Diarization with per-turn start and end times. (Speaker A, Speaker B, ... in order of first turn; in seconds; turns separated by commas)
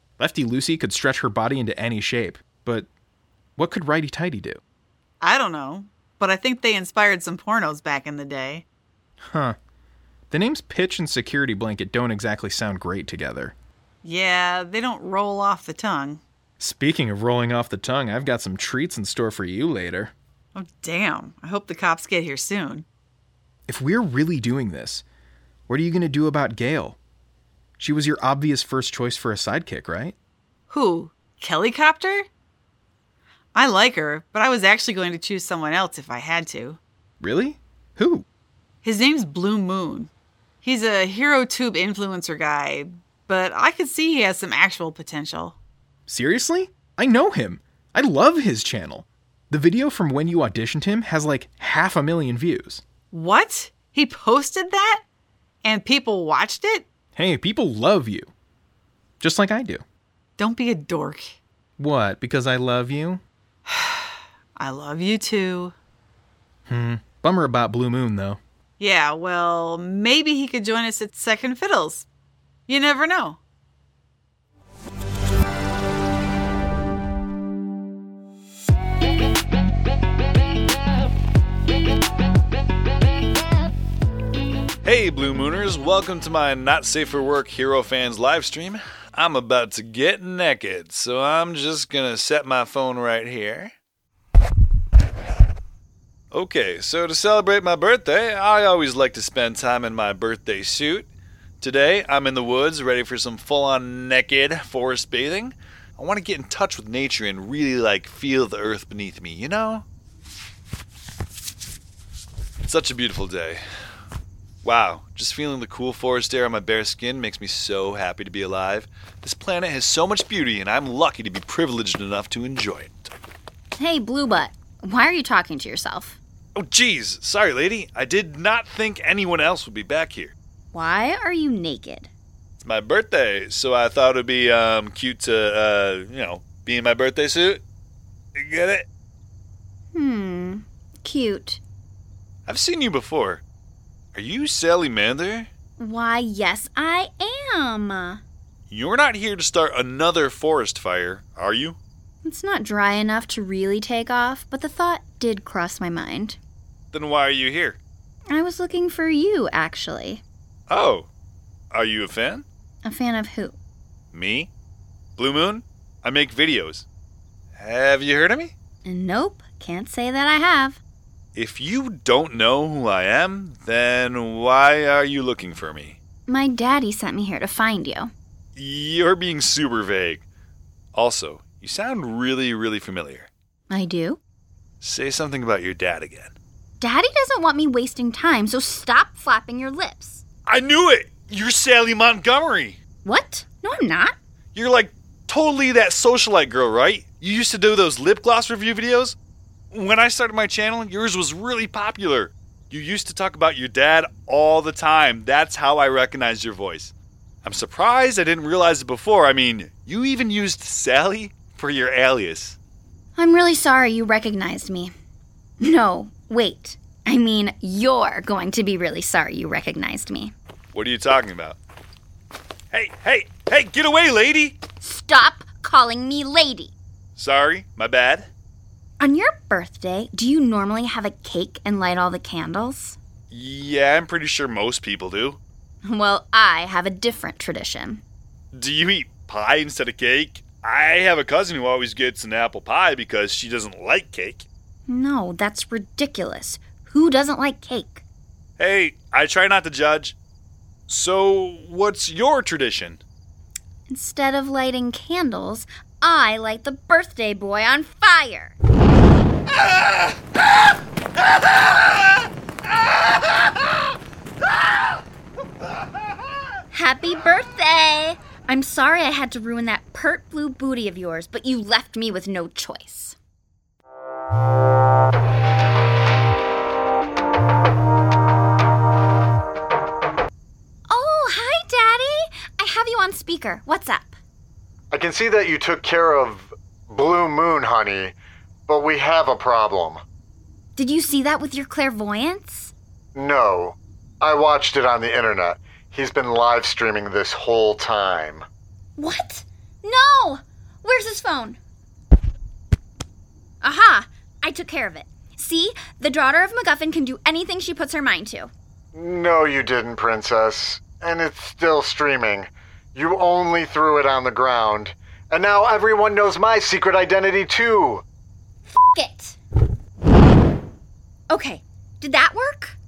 Speaker A: 0.2-2.9, Speaker A: 3.6-4.6, Speaker B: 5.2-8.6, Speaker A: 9.2-9.6, Speaker A: 10.3-13.5, Speaker B: 14.0-16.2, Speaker A: 16.6-20.1, Speaker B: 20.5-22.8, Speaker A: 23.7-25.0, Speaker A: 25.7-27.0, Speaker A: 27.8-30.1, Speaker B: 30.7-32.3, Speaker B: 33.5-36.8, Speaker A: 37.2-38.2, Speaker B: 38.8-40.1, Speaker B: 40.6-45.6, Speaker A: 46.1-52.8, Speaker B: 53.1-55.0, Speaker B: 55.6-56.9, Speaker A: 57.1-58.3, Speaker A: 59.2-59.8, Speaker B: 60.4-61.4, Speaker A: 61.8-63.2, Speaker B: 63.7-65.7, Speaker A: 66.7-68.4, Speaker B: 68.8-72.0, Speaker B: 72.7-73.4, Speaker C: 84.8-93.7, Speaker C: 96.3-101.1, Speaker C: 101.6-109.8, Speaker C: 112.6-113.6, Speaker C: 114.6-123.1, Speaker D: 123.8-126.2, Speaker C: 126.5-130.3, Speaker D: 130.7-132.1, Speaker C: 132.6-137.6, Speaker C: 138.3-138.8, Speaker D: 139.9-141.6, Speaker C: 142.5-143.4, Speaker C: 144.1-145.5, Speaker D: 145.8-148.2, Speaker C: 148.7-151.8, Speaker D: 152.2-156.4, Speaker C: 156.9-157.8, Speaker D: 158.3-160.2, Speaker C: 160.7-161.1, Speaker C: 161.7-162.4, Speaker D: 162.8-163.6, Speaker C: 164.1-164.5, Speaker C: 165.2-166.8, Speaker C: 167.6-168.5, Speaker D: 168.8-170.8, Speaker C: 171.3-176.0, Speaker D: 176.3-178.1, Speaker C: 178.6-180.2, Speaker C: 180.9-183.3, Speaker D: 183.7-184.2, Speaker C: 184.8-186.3, Speaker D: 186.8-190.2, Speaker C: 190.4-192.8, Speaker D: 193.0-194.1, Speaker C: 194.5-199.2, Speaker C: 199.7-212.6, Speaker D: 213.2-214.9, Speaker D: 215.6-220.3, Speaker C: 220.7-221.6, Speaker C: 222.7-224.6, Speaker D: 224.8-226.7, Speaker C: 227.2-228.3, Speaker D: 229.0-233.0, Speaker C: 233.3-235.4, Speaker D: 235.8-238.0, Speaker C: 238.5-244.5, Speaker D: 244.9-248.0, Speaker C: 248.6-250.1, Speaker C: 250.9-253.0, Speaker D: 253.9-258.5, Speaker D: 266.7-273.1, Speaker D: 280.9-284.1, Speaker E: 284.9-288.1, Speaker E: 288.7-290.0, Speaker D: 290.8-292.7, Speaker E: 293.1-298.4, Speaker D: 299.0-301.6, Speaker D: 303.6-308.5, Speaker E: 308.9-318.0, Speaker D: 318.7-319.4, Speaker D: 321.3-322.8